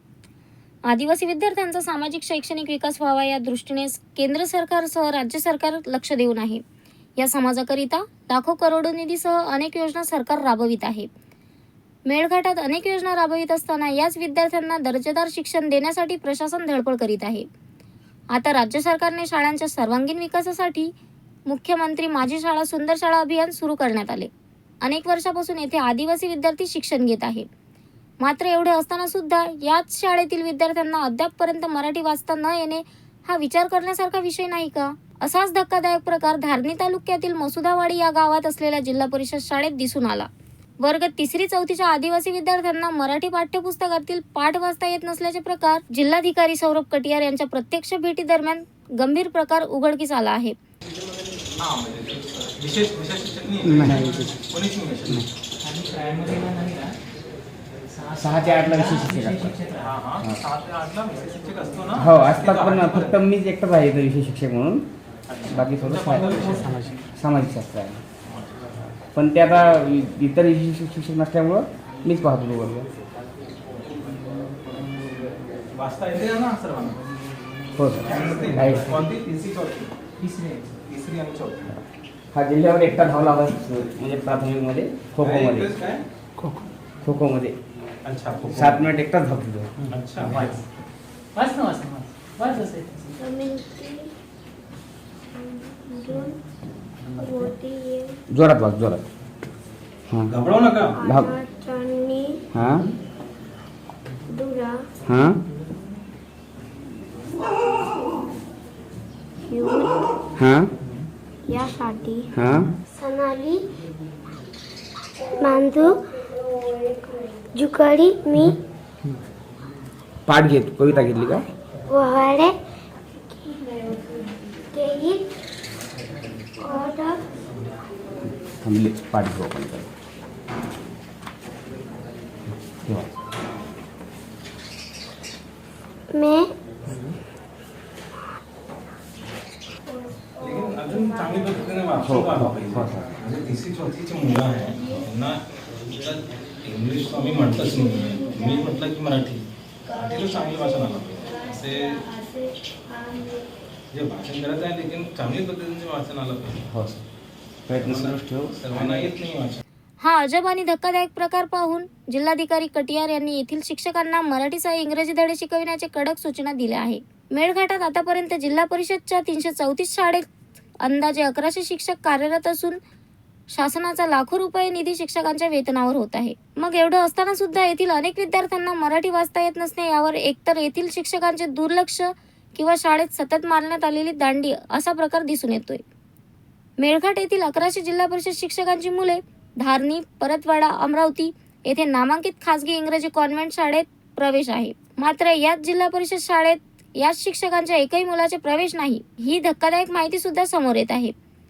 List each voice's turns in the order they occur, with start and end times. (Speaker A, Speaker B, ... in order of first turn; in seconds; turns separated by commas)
Speaker A: 0.9-6.6, Speaker A: 7.2-11.1, Speaker A: 12.1-17.5, Speaker A: 18.3-20.9, Speaker A: 21.5-24.3, Speaker A: 24.8-27.5, Speaker A: 28.2-40.3, Speaker A: 40.8-50.6, Speaker B: 51.6-55.3, Speaker C: 53.6-54.4, Speaker D: 53.9-54.3, Speaker D: 55.6-57.0, Speaker D: 57.9-60.0, Speaker C: 58.2-59.5, Speaker B: 59.8-63.2, Speaker C: 62.0-64.8, Speaker B: 65.3-67.0, Speaker C: 65.5-66.6, Speaker D: 66.3-67.0, Speaker C: 67.2-68.0, Speaker B: 68.2-68.9, Speaker C: 69.1-72.9, Speaker B: 73.8-74.3, Speaker B: 75.7-77.0, Speaker C: 77.8-79.1, Speaker B: 78.0-80.0, Speaker D: 80.2-80.8, Speaker B: 80.8-81.7, Speaker C: 82.3-85.7, Speaker B: 85.2-86.0, Speaker C: 87.0-87.6, Speaker B: 88.0-88.9, Speaker C: 88.5-89.9, Speaker B: 89.9-90.6, Speaker D: 91.3-93.1, Speaker E: 93.2-94.1, Speaker E: 95.3-96.4, Speaker E: 97.1-98.2, Speaker C: 98.3-99.0, Speaker C: 100.1-100.3, Speaker B: 100.3-101.0, Speaker E: 101.0-102.5, Speaker C: 101.0-101.3, Speaker C: 102.5-102.9, Speaker E: 104.3-104.9, Speaker C: 105.0-105.4, Speaker E: 109.5-110.1, Speaker C: 110.4-110.7, Speaker E: 111.5-112.3, Speaker C: 112.3-112.7, Speaker E: 112.9-113.6, Speaker E: 115.2-118.6, Speaker C: 120.3-121.5, Speaker E: 121.9-122.5, Speaker E: 123.3-125.2, Speaker E: 126.6-127.2, Speaker C: 128.5-129.9, Speaker C: 132.7-133.1, Speaker E: 136.1-136.5, Speaker E: 139.9-141.9, Speaker B: 140.4-152.0, Speaker C: 142.0-143.1, Speaker E: 147.5-148.8, Speaker E: 150.1-153.5, Speaker B: 153.9-156.7, Speaker C: 156.7-157.0, Speaker C: 157.7-159.1, Speaker B: 157.7-159.6, Speaker A: 160.0-170.3, Speaker A: 170.8-172.8, Speaker A: 173.5-185.8, Speaker A: 186.8-201.1